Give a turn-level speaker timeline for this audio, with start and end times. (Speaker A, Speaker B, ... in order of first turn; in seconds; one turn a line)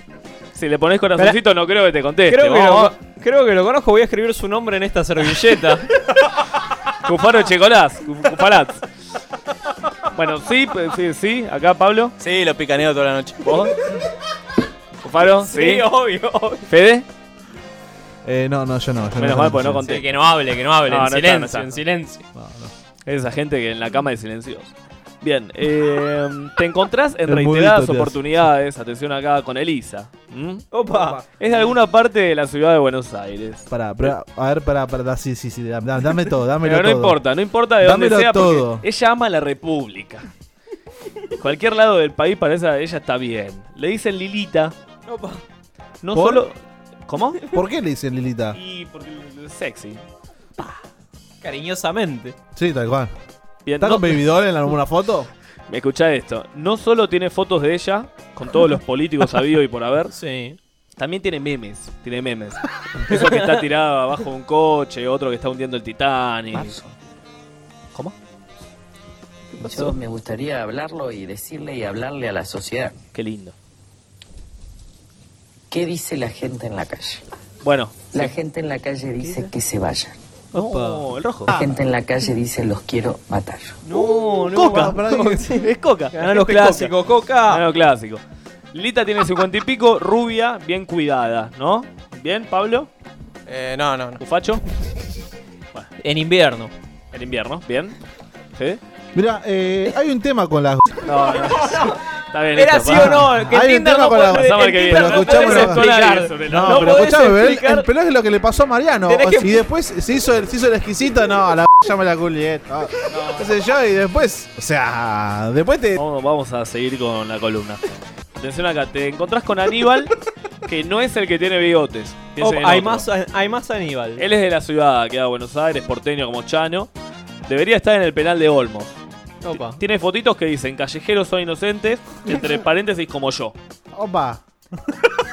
Speaker A: 0.5-2.9
Speaker B: 2.3-5.9
Speaker A: 7.0-8.8
Speaker A: 10.1-12.2
Speaker C: 12.2-13.5
Speaker A: 13.4-13.8
Speaker A: 15.0-15.9
Speaker B: 15.4-16.7
Speaker A: 16.7-17.1
Speaker D: 18.2-19.8
Speaker A: 19.2-20.1
Speaker B: 19.9-22.2
Speaker A: 20.9-21.8
Speaker D: 22.4-22.7
Speaker A: 23.1-34.1
Speaker D: 27.3-28.3
Speaker B: 30.7-31.2
Speaker D: 33.7-37.2
Speaker A: 36.6-40.3
Speaker D: 37.8-38.8
Speaker A: 41.4-44.8
Speaker B: 45.1-45.4
Speaker A: 46.0-46.6
Speaker D: 46.1-46.5
Speaker A: 47.1-47.5
Speaker D: 47.5-48.6
Speaker A: 48.5-50.0
Speaker B: 51.4-52.4
Speaker D: 52.5-53.1
Speaker A: 53.7-54.2
Speaker D: 53.8-55.3
Speaker A: 55.7-60.1
Speaker B: 60.1-60.6
Speaker A: 61.0-66.8
Speaker B: 63.1-63.5
Speaker E: 66.5-66.9
Speaker E: 69.6-73.0
Speaker A: 73.1-73.5
Speaker E: 75.7-77.2
Speaker A: 77.6-78.3
Speaker E: 78.1-80.2
Speaker A: 80.5-81.5
Speaker B: 80.5-81.0
Speaker E: 81.5-83.8
Speaker B: 83.8-87.6
Speaker A: 84.5-87.0
Speaker D: 84.5-85.4
Speaker A: 87.5-88.2
Speaker A: 88.7-92.9
Speaker C: 93.5-94.2
Speaker A: 94.2-94.6
Speaker B: 96.0-96.7
Speaker A: 97.1-98.0
Speaker A: 98.5-98.8
Speaker D: 99.1-101.0
Speaker A: 101.0-107.2
Speaker B: 101.6-101.9
Speaker B: 102.5-107.9
Speaker D: 102.9-105.8
Speaker D: 106.5-116.0
Speaker B: 109.1-109.6
Speaker A: 116.0-117.8
Speaker A: 118.4-120.1
Speaker A: 120.7-123.1
Speaker B: 122.4-124.2
Speaker A: 124.2-126.9
Speaker A: 127.5-129.0
Speaker B: 129.4-129.8
Speaker A: 129.5-133.6
Speaker D: 133.9-135.0